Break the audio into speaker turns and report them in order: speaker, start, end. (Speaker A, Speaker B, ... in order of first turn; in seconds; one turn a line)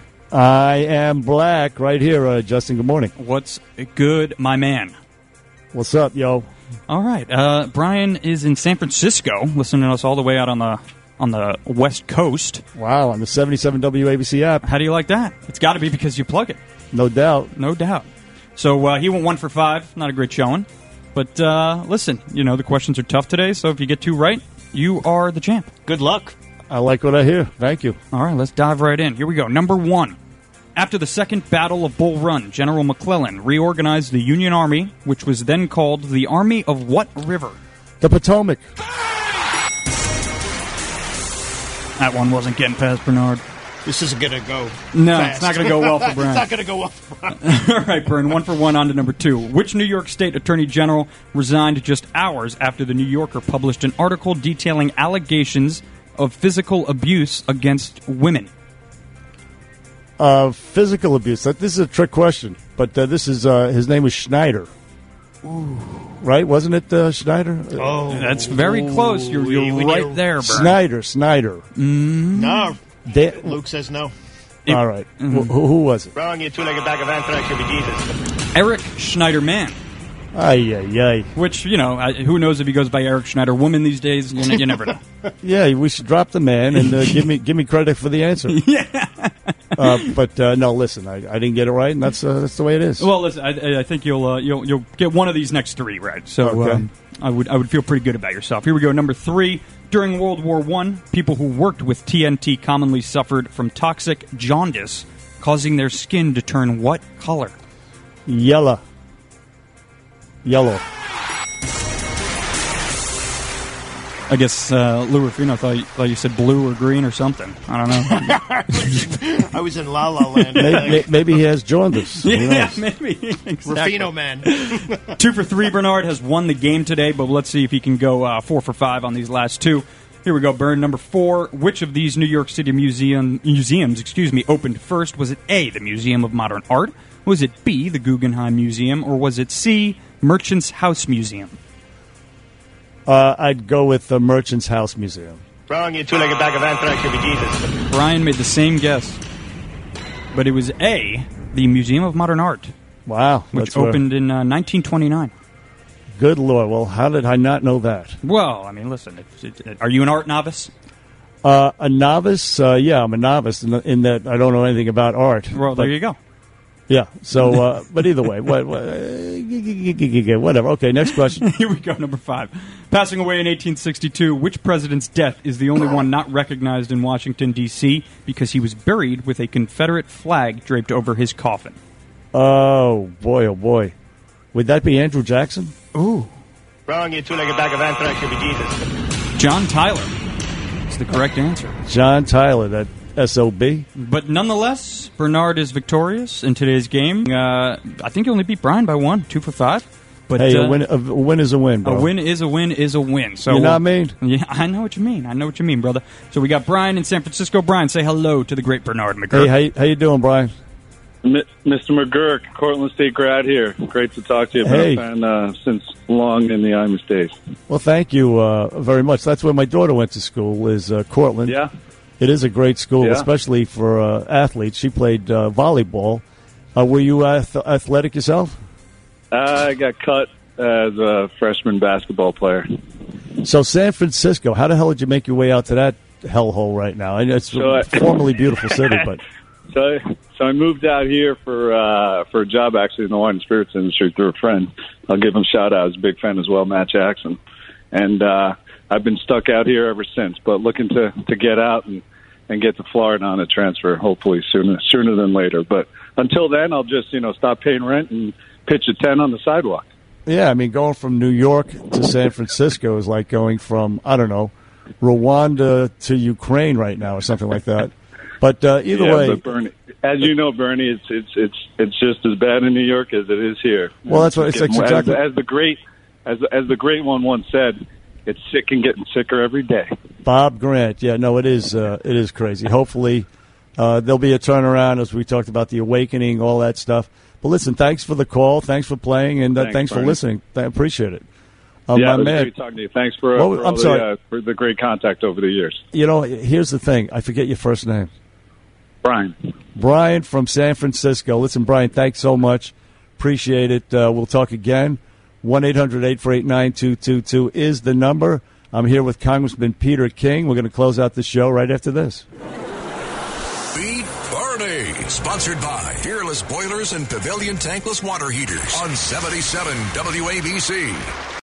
Speaker A: 0.3-3.1
Speaker B: 3.2-5.0
Speaker A: 5.7-6.5
Speaker B: 6.9-12.6
Speaker A: 12.8-14.7
Speaker B: 14.6-16.6
Speaker A: 16.9-17.5
Speaker B: 17.6-25.7
Speaker C: 25.9-26.4
Speaker A: 26.7-28.0
Speaker B: 28.1-30.2
Speaker B: 30.8-37.6
Speaker A: 38.0-38.6
Speaker B: 42.0-43.4
Speaker C: 43.9-47.4
Speaker B: 44.9-46.5
Speaker B: 47.4-58.5
Speaker A: 60.2-64.7
Speaker C: 65.5-66.0
Speaker A: 66.2-68.2
Speaker C: 67.8-70.2
Speaker B: 68.1-70.8
Speaker A: 70.4-71.7
Speaker B: 71.8-72.7
Speaker C: 72.3-74.1
Speaker A: 73.1-73.6
Speaker B: 74.7-75.5
Speaker A: 74.7-76.1
Speaker D: 76.2-78.1
Speaker B: 78.5-79.8
Speaker A: 80.3-81.3
Speaker B: 81.3-85.0
Speaker A: 85.4-88.6
Speaker B: 88.5-90.1
Speaker A: 89.8-93.1
Speaker B: 93.0-107.6
Speaker A: 96.4-96.8
Speaker A: 108.3-108.8
Speaker A: 110.5-110.8
Speaker B: 114.3-118.4
Speaker C: 118.1-121.0
Speaker B: 120.5-121.0
Speaker A: 120.6-122.8
Speaker B: 122.2-141.6
Speaker C: 123.7-124.8
Speaker A: 143.1-145.4
Speaker D: 145.7-147.7
Speaker B: 147.9-149.2
Speaker B: 150.3-152.7
Speaker A: 153.1-154.0
Speaker B: 153.5-155.3
Speaker A: 156.2-158.2
Speaker B: 158.2-160.7
Speaker A: 161.4-165.9
Speaker B: 165.5-166.2
Speaker A: 166.9-171.4
Speaker B: 171.1-181.8
Speaker A: 182.3-183.9
Speaker A: 184.5-185.7
Speaker B: 185.9-186.3
Speaker D: 186.9-188.8
Speaker B: 189.4-190.1
Speaker B: 190.9-191.8
Speaker A: 191.9-193.9
Speaker B: 194.0-200.8
Speaker A: 200.3-202.1
Speaker B: 201.8-209.5
Speaker A: 203.5-204.1
Speaker A: 209.3-210.5
Speaker E: 211.2-217.3
Speaker A: 214.6-215.0
Speaker A: 217.7-221.6
Speaker A: 222.2-226.2
Speaker E: 223.0-223.3
Speaker A: 226.8-228.6
Speaker E: 229.3-232.7
Speaker A: 233.4-239.2
Speaker E: 237.6-238.3
Speaker E: 239.7-247.4
Speaker E: 247.9-259.9
Speaker A: 260.3-269.4
Speaker E: 268.9-279.9
Speaker A: 274.1-275.2
Speaker A: 280.2-291.2
Speaker E: 289.6-290.2
Speaker A: 291.9-292.5
Speaker E: 291.9-295.8
Speaker A: 293.4-294.1
Speaker A: 295.9-298.1
Speaker E: 299.0-299.4
Speaker A: 299.8-312.2
Speaker F: 313.7-321.1